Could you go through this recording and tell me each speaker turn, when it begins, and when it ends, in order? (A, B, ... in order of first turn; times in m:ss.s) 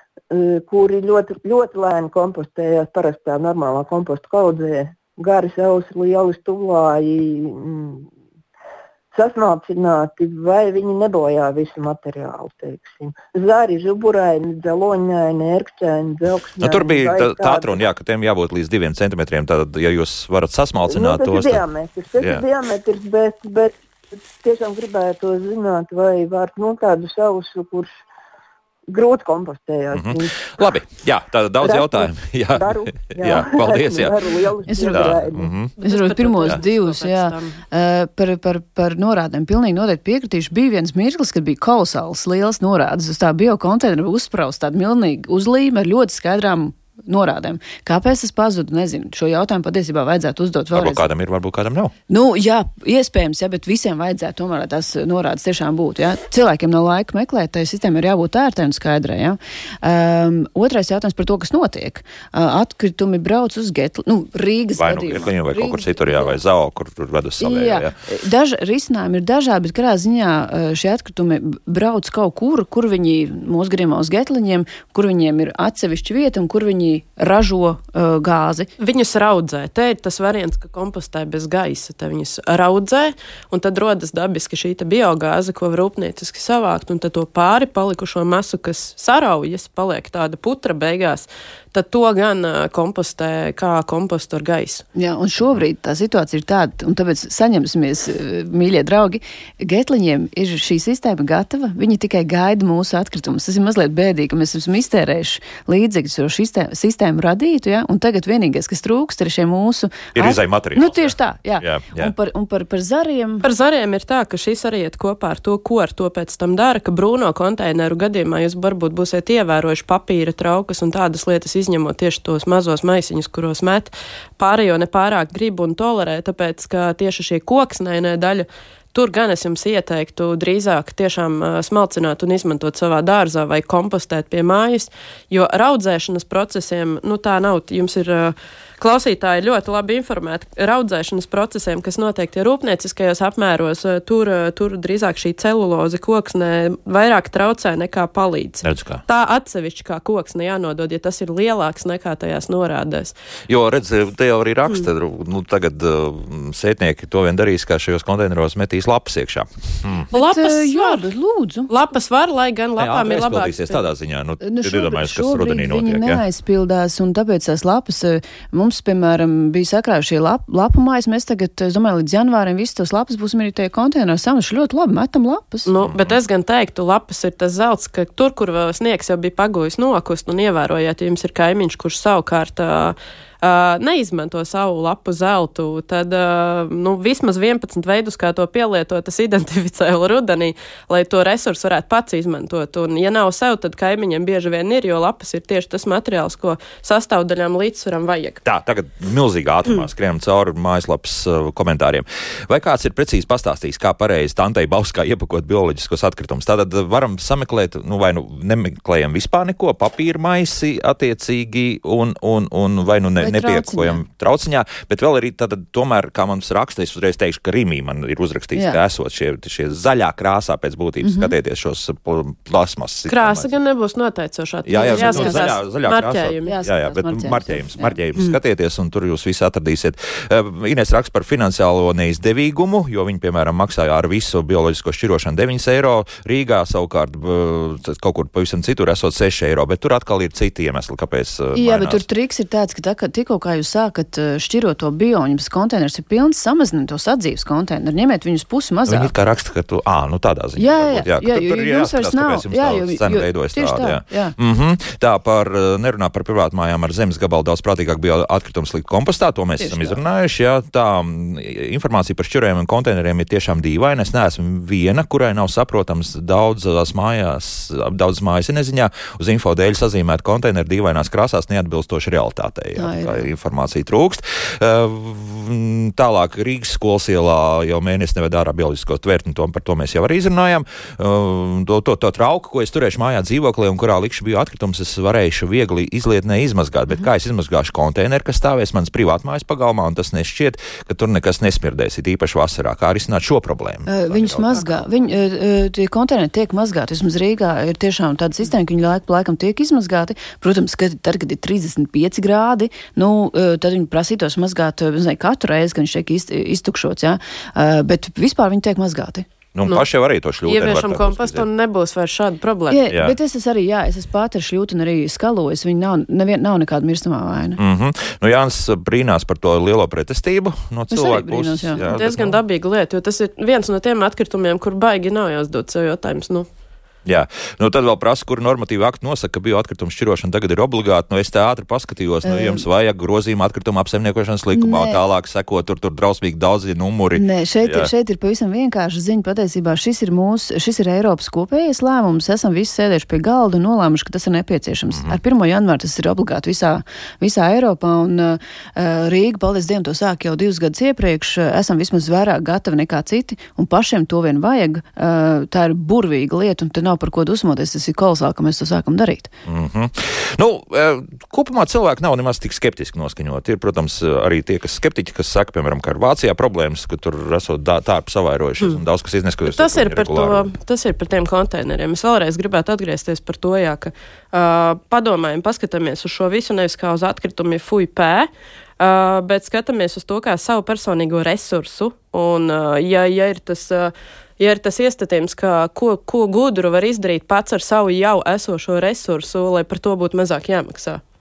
0:00.3-0:08.1 A
0:09.1-0:17.9 A
0:16.6-0:21.6 B
0:20.9-0:23.8 A
0:22.2-0:22.4 B
0:24.3-0:27.9 A
0:28.9-0:30.3 A
0:29.9-0:35.7 B
0:31.6-0:35.5 A
0:34.7-0:35.2 C
0:35.8-0:37.6 D
0:35.8-0:51.0 C
0:50.7-0:51.9 B
0:52.1-1:06.4 C
1:04.8-1:07.9 B
1:07.4-1:18.7 C
1:18.8-1:34.8 D
1:35.0-1:53.4 C
1:50.2-1:52.1 B
1:53.4-2:33.2 D
2:28.6-2:29.0 B
2:33.5-2:40.1 B
2:40.1-2:41.7 C
2:40.1-2:41.0 D
2:41.7-2:43.8 D
2:42.8-2:46.2 B
2:44.4-2:55.7 C
2:55.7-3:18.4 D
2:55.8-2:56.2 B
3:18.4-3:43.5 B
3:33.2-3:34.0 C
3:38.6-3:38.8 C
3:41.0-3:41.4 C
3:43.1-3:46.6 D
3:44.7-4:02.0 B
3:44.9-3:45.5 C
3:46.4-3:48.0 C
4:01.6-4:09.1 C
4:08.9-4:54.8 B
4:10.6-4:14.4 C
4:19.6-4:20.0 C
4:32.8-4:33.3 C
4:53.9-5:09.3 C
5:09.6-5:11.4 B
5:10.5-5:12.8 D
5:12.7-5:17.6 C
5:17.6-5:22.4 B
5:20.9-5:21.8 C
5:21.9-5:26.5 D
5:27.1-5:37.9 B
5:32.2-5:32.7 C
5:34.5-5:35.0 C
5:37.2-5:59.3 C
5:44.9-5:45.2 B
5:59.5-6:10.5 B
6:09.5-6:31.0 D